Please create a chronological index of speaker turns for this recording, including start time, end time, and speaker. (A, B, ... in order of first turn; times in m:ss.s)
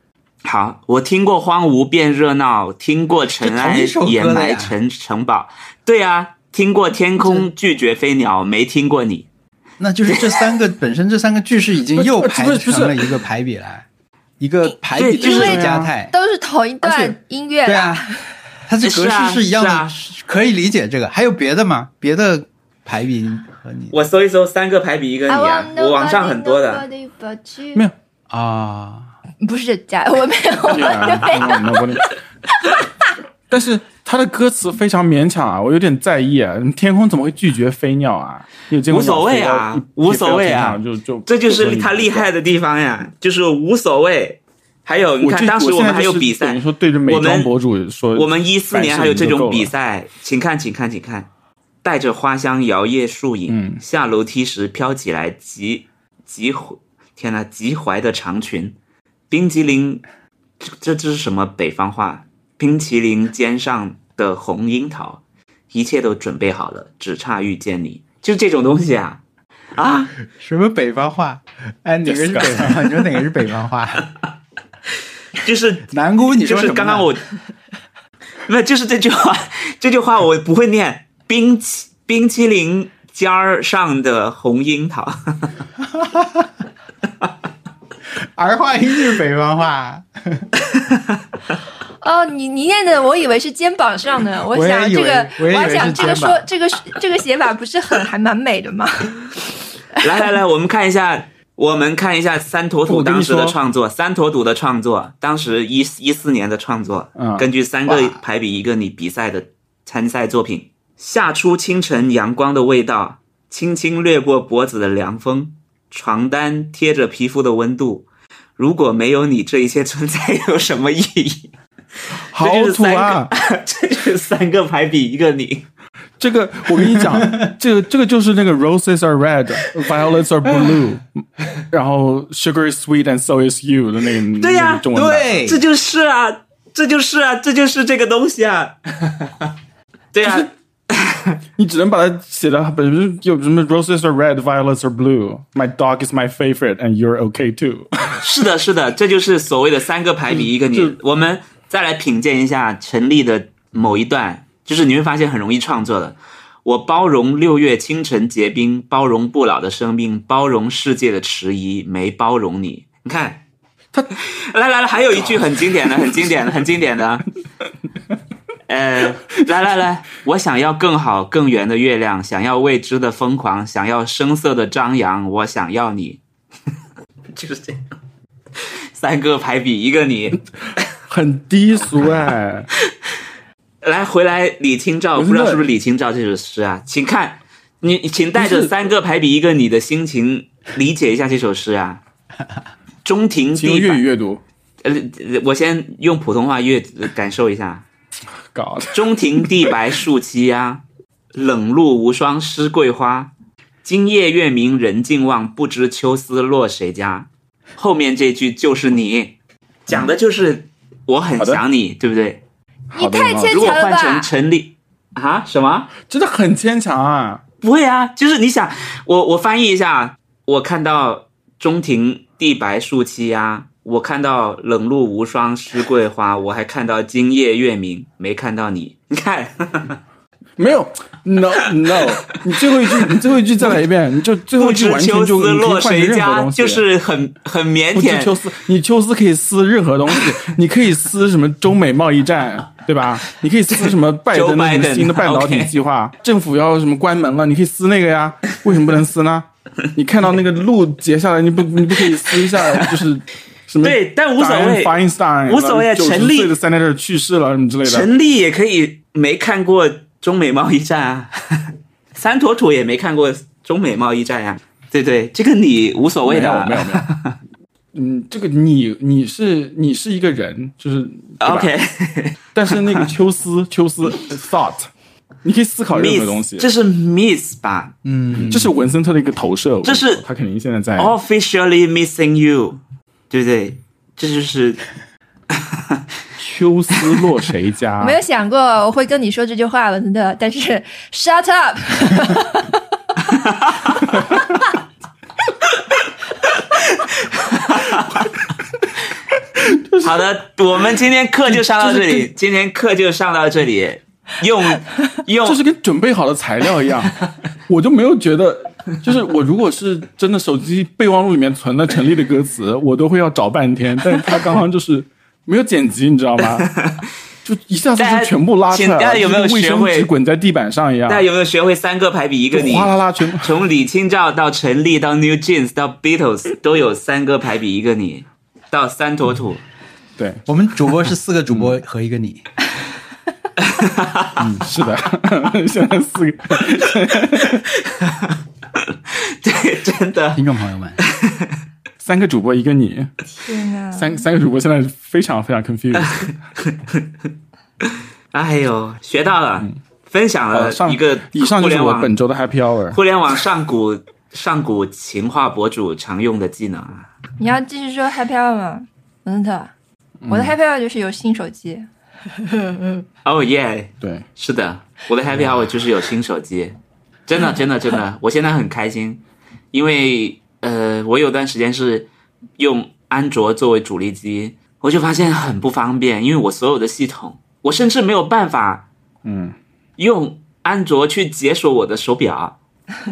0:00.4-0:09.3 A
0:03.4-0:04.8 B
0:09.8-0:13.8 B
0:11.9-0:13.1 C
0:14.4-0:16.1 B
0:14.9-0:15.6 A
0:15.2-0:18.2 D
0:15.4-0:15.9 C
0:16.8-0:18.1 B
0:18.7-0:23.9 B
0:18.8-0:19.9 A
0:23.9-0:26.8 A
0:25.3-0:27.9 D
0:28.3-0:29.1 B
0:29.4-0:32.0 D
0:30.6-0:32.2 C
0:33.5-0:42.3 C
0:38.9-0:47.5 A
0:45.2-0:49.7 C
0:48.1-0:51.3 A
0:51.8-0:58.7 A
0:53.5-0:53.8 C
0:59.3-1:00.0 A
1:00.6-1:09.2 A
1:09.7-1:10.1 A
1:10.3-1:14.1 B
1:12.0-1:12.9 C
1:15.3-1:17.2 A
1:15.9-1:17.1 B
1:18.4-1:25.5 A
1:25.8-1:26.5 B
1:28.3-1:30.5 B
1:30.7-1:31.0 A
1:32.0-1:39.3 D
1:34.5-1:36.4 B
1:40.0-1:58.0 A
1:42.9-1:43.5 C
1:47.2-1:47.5 C
1:47.9-1:48.2 B
1:58.6-2:01.5 A
2:02.3-2:03.3 C
2:02.3-2:05.6 A
2:06.2-2:11.1 C
2:07.0-2:07.2 B
2:11.7-2:15.4 C
2:14.4-2:19.3 A
2:14.9-2:15.6 B
2:20.1-2:21.3 A
2:20.2-2:20.5 C
2:21.6-2:28.3 C
2:28.2-2:43.4 A
2:30.3-2:31.0 C
2:44.2-2:47.2 A
2:48.7-2:56.2 A
2:57.3-2:57.8 A
2:58.6-3:00.4 A
3:01.1-3:02.7 C
3:03.8-3:12.0 A
3:05.2-3:05.6 C
3:08.4-3:08.7 C
3:13.0-3:14.0 A
3:13.5-3:14.4 C
3:14.8-3:17.8 A
3:18.5-3:19.7 C
3:18.9-3:20.8 A
3:21.3-3:23.3 A
3:23.8-3:29.3 A
3:29.8-3:32.4 A
3:32.9-3:33.8 C
3:32.9-3:34.3 D
3:33.5-3:35.9 A
3:36.0-3:37.4 C
3:37.6-3:50.0 A
3:50.6-3:56.8 C
3:54.6-3:58.3 A
3:57.9-4:18.1 C
4:04.3-4:05.7 A
4:12.3-4:12.9 A
4:13.8-4:14.9 A
4:15.4-4:16.5 A
4:17.8-4:27.3 A
4:26.2-4:27.1 C
4:27.9-4:31.7 C
4:31.4-4:33.1 A
4:32.5-4:34.9 C
4:35.4-4:36.7 C
4:35.9-4:37.9 A
4:38.0-4:38.7 B
4:38.4-4:41.1 C
4:39.8-4:40.2 A
4:41.0-4:44.8 A
4:45.5-4:46.0 A
4:46.4-4:48.2 C
4:48.0-4:52.7 D
4:53.3-4:54.1 A
4:55.6-4:58.4 A
4:59.6-5:00.2 C
5:00.0-5:05.6 A
5:01.5-5:02.2 C
5:05.4-5:16.7 C
5:16.5-5:17.0 A
5:17.4-5:21.2 C
5:18.0-5:20.1 A
5:21.1-5:29.6 A
5:22.5-5:23.6 C
5:30.2-5:30.4 C
5:30.4-5:32.4 B
5:31.5-5:31.7 C
5:33.6-5:34.4 A
5:34.4-5:37.6 C
5:37.3-5:40.4 A
5:40.3-5:41.0 B
5:41.0-5:41.6 A
5:42.0-5:43.2 C
5:43.3-5:44.2 D
5:43.9-5:46.3 C
5:46.0-5:47.0 A
5:47.8-5:52.1 A
5:50.5-5:53.0 C
5:52.9-5:57.1 A
5:57.4-5:59.7 D
6:00.2-6:00.5 C
6:00.3-6:03.0 D
6:03.2-6:06.8 A
6:07.3-6:09.2 A
6:09.7-6:18.8 A
6:19.2-6:19.5 C
6:20.0-6:22.5 A